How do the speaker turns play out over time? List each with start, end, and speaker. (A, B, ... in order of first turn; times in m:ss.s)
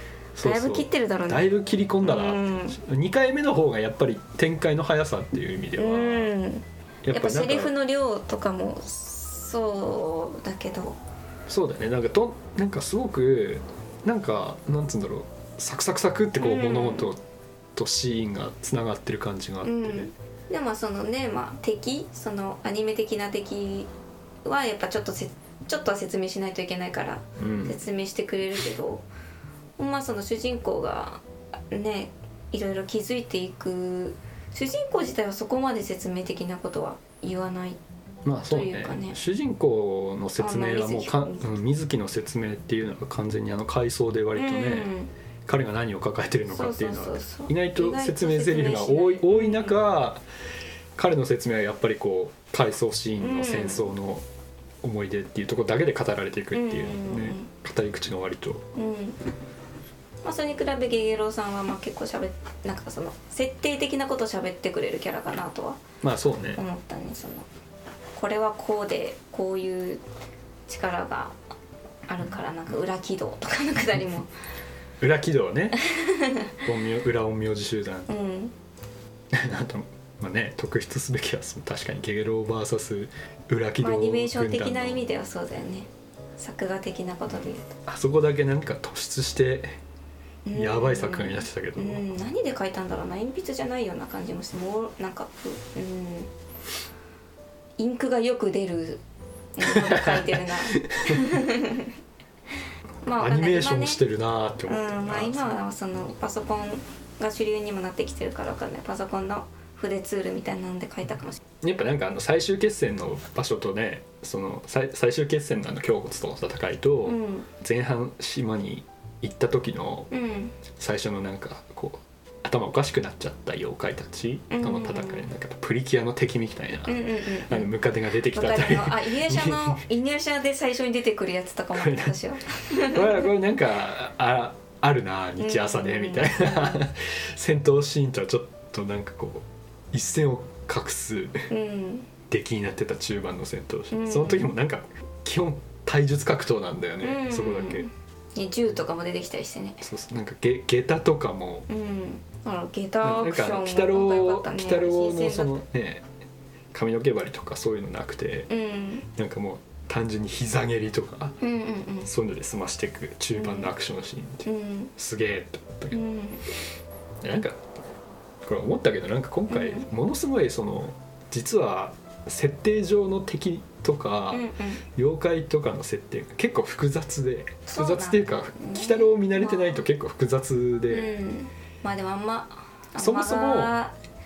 0:00.4-0:06.3 A
0:00.4-0:01.5 B
0:02.0-0:02.8 B
0:05.8-0:11.0 B
0:07.0-0:07.7 A
0:11.5-0:17.2 A
0:16.4-0:17.1 B
0:17.8-0:20.1 A
0:19.6-0:23.9 B
0:24.4-0:29.1 B
0:27.4-0:27.8 A
0:29.8-0:37.8 B
0:38.2-0:44.9 A
0:38.5-0:39.2 B
0:40.4-0:41.5 B
0:44.4-0:45.1 B
0:45.5-0:50.2 A
0:46.5-0:49.8 B
0:51.0-0:54.2 A
0:53.2-0:53.9 B
0:54.8-0:58.7 A
0:56.5-0:57.5 B
0:58.8-0:59.2 B
1:00.2-1:05.8 B
1:06.0-1:06.6 A
1:06.6-1:07.5 B
1:08.2-1:10.0 B
1:10.7-1:11.4 B
1:12.1-1:14.3 B
1:15.0-1:15.8 A
1:15.8-1:16.6 B
1:16.6-1:18.1 A
1:18.1-1:18.5 B
1:19.3-1:25.1 A
1:23.8-1:27.7 B
1:27.4-1:29.8 A
1:30.5-1:36.3 B
1:30.5-1:32.1 A
1:37.8-1:39.0 B
1:39.6-1:41.9 B
1:39.6-1:41.2 A
1:43.0-1:44.0 B
1:43.2-1:45.6 A
1:44.7-1:51.4 B
1:51.6-2:00.1 A
1:57.0-1:57.5 B
2:00.1-2:00.6 B
2:00.7-2:09.8 A
2:04.5-2:05.3 B
2:06.9-2:07.7 B
2:08.2-2:13.3 B
2:11.7-2:12.2 A
2:12.7-2:21.5 A
2:15.4-2:16.8 B
2:21.5-2:22.1 B
2:22.3-2:27.9 A
2:23.9-2:24.5 B
2:27.0-2:29.9 B
2:29.8-2:31.7 A
2:31.7-2:35.6 B
2:33.0-2:36.0 A
2:36.7-2:38.5 A
2:38.5-2:39.1 B
2:39.1-2:41.4 A
2:41.4-2:42.1 B
2:42.0-2:46.0 A
2:43.4-2:43.7 B
2:44.4-2:44.9 B
2:45.9-2:46.5 B
2:47.2-2:47.6 A
2:48.4-3:01.1 A
2:49.5-2:49.9 B
2:54.3-2:54.8 B
2:57.7-2:59.8 B
3:00.9-3:04.0 B
3:03.0-3:03.7 A